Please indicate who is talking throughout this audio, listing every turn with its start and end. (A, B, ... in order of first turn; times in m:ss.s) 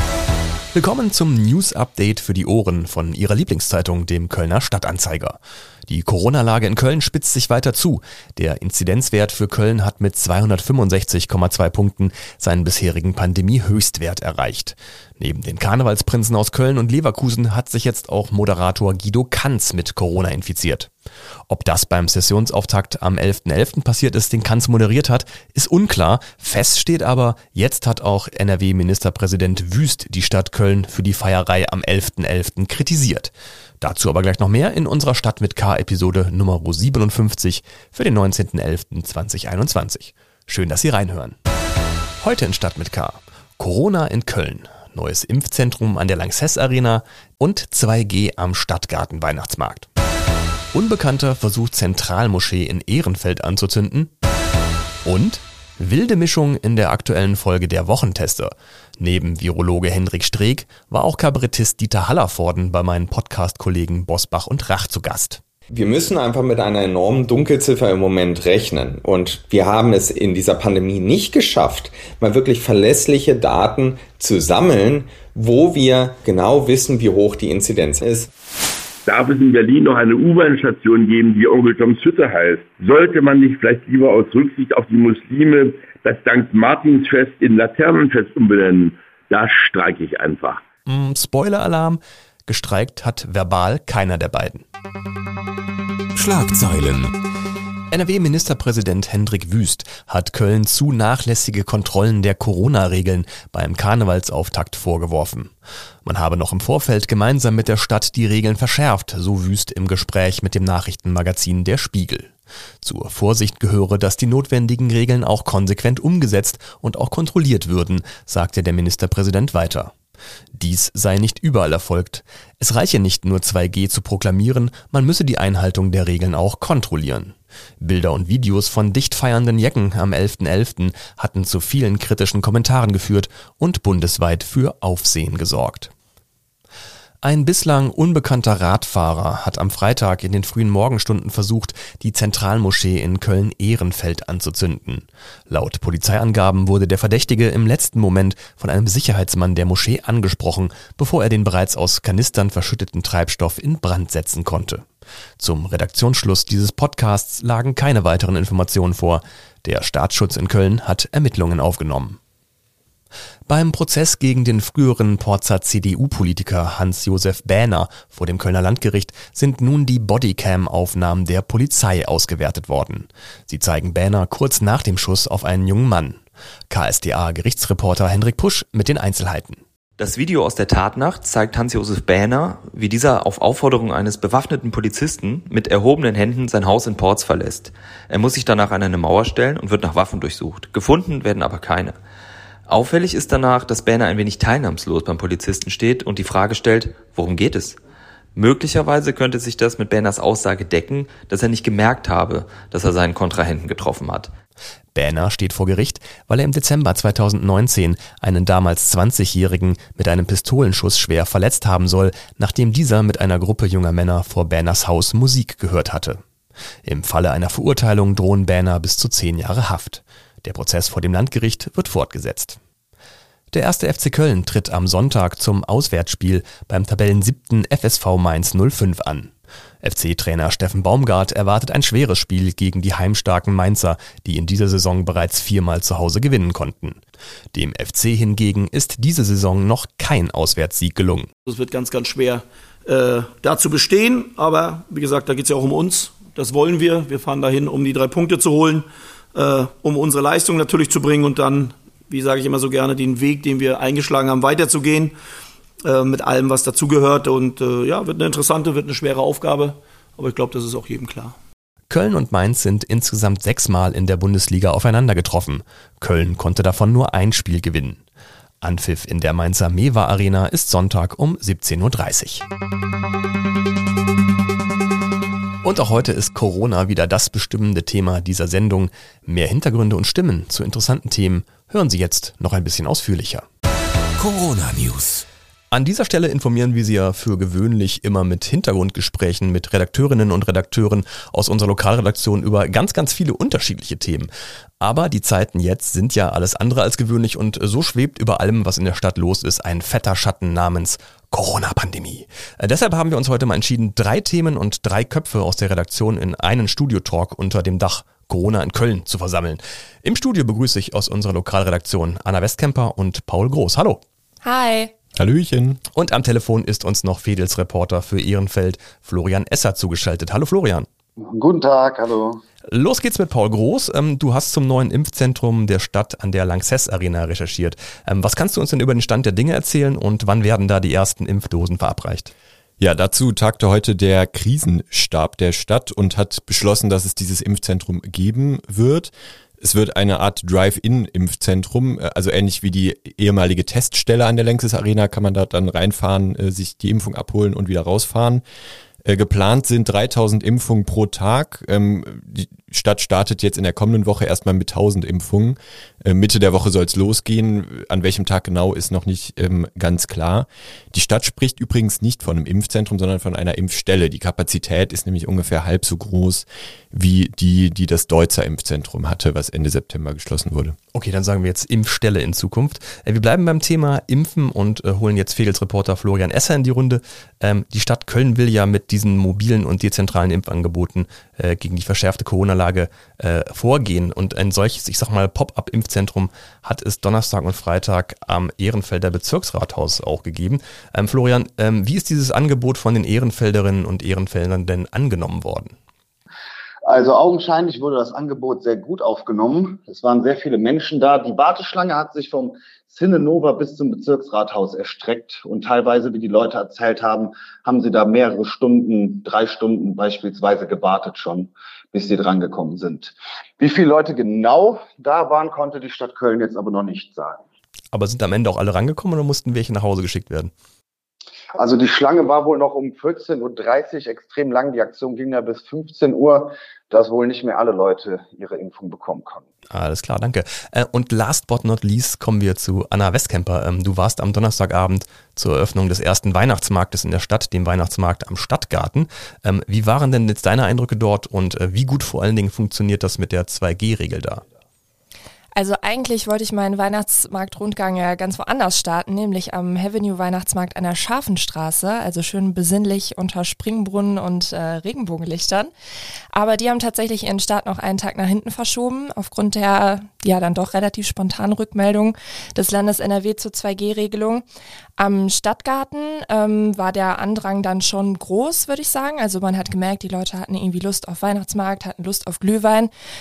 0:00.7-0:20.9 A
0:21.5-0:41.4 A
0:42.2-0:49.9 A
0:50.7-0:54.1 A
0:55.0-1:05.4 A
1:05.7-1:18.3 B
1:19.0-1:30.6 C
1:30.8-1:34.6 A
1:36.1-1:37.1 D
1:37.9-1:45.5 A
1:46.0-1:59.9 A
2:00.5-2:15.9 A
2:17.2-2:34.8 A
2:35.4-2:42.2 A
2:43.5-2:59.6 A
3:00.0-3:12.0 E
3:12.7-3:17.8 E
3:18.3-3:24.3 E
3:24.9-3:36.2 A
3:36.8-3:42.6 A
3:43.5-3:57.0 A
3:57.5-4:01.3 A
4:01.4-4:15.1 F
4:15.8-4:21.3 F
4:21.9-4:28.0 A
4:28.6-4:32.4 A
4:35.6-4:43.4 A
4:44.2-4:45.2 D
4:45.7-5:14.0 A
5:14.4-5:14.9 G
5:15.2-5:15.8 H
5:15.9-5:20.9 A
5:21.2-5:22.4 I
5:22.7-5:32.3 A
5:32.8-5:48.4 H
5:49.0-6:10.7 H
6:10.9-6:35.8 A
6:36.9-6:57.4 I
6:57.9-7:00.5 A
7:01.5-7:09.4 I
7:09.7-7:24.4 A
7:25.5-7:35.7 G
7:36.3-7:44.4 G
7:45.0-7:52.9 G